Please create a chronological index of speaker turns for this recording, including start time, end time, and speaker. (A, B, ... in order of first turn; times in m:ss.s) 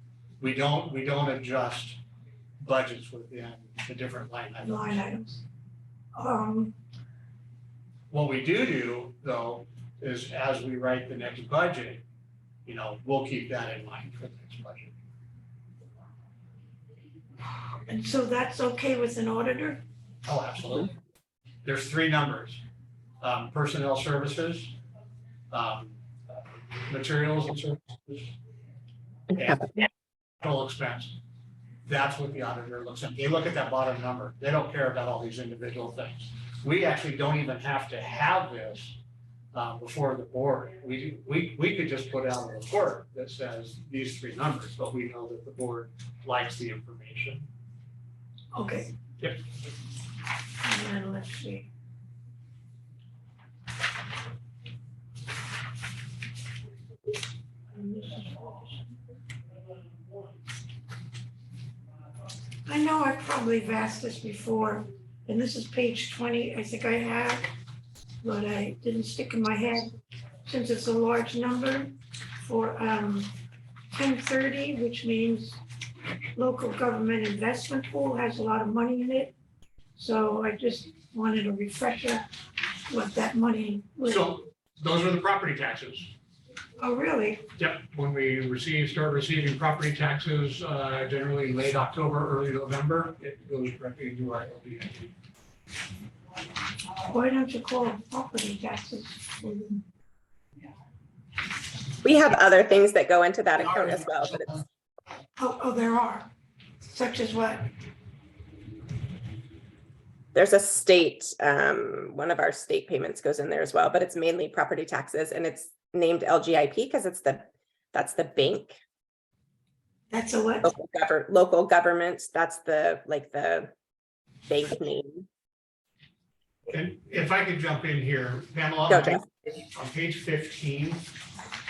0:00.4-0:02.0 A
0:02.6-0:05.0 A
0:04.6-0:05.4 B
0:06.2-0:06.7 B
0:08.1-0:12.0 A
0:12.6-0:14.9 A
0:17.9-0:19.8 B
0:20.2-0:20.9 A
0:21.6-0:22.6 A
0:23.2-0:24.7 A
0:25.5-0:26.0 A
0:26.9-0:28.3 A
0:29.3-0:29.7 A
0:30.4-0:31.2 A
0:31.8-0:39.0 A
0:39.5-0:47.5 A
0:48.5-0:48.9 B
0:50.6-0:51.7 B
0:57.7-0:58.8 B
1:02.6-1:07.5 B
1:08.2-1:09.9 B
1:10.4-1:13.3 B
1:13.9-1:15.6 B
1:16.3-1:19.3 B
1:20.0-1:22.3 B
1:22.9-1:24.4 B
1:24.1-1:26.1 A
1:26.8-1:27.4 B
1:27.6-1:35.1 A
1:37.0-1:39.8 B
1:42.0-1:44.6 C
1:43.7-1:44.5 A
1:45.4-1:46.3 B
1:46.8-1:47.7 B
1:50.3-1:58.8 C
2:00.1-2:00.7 B
2:00.6-2:03.7 C
2:04.5-2:05.3 C
2:06.7-2:11.1 A
2:08.9-2:09.2 C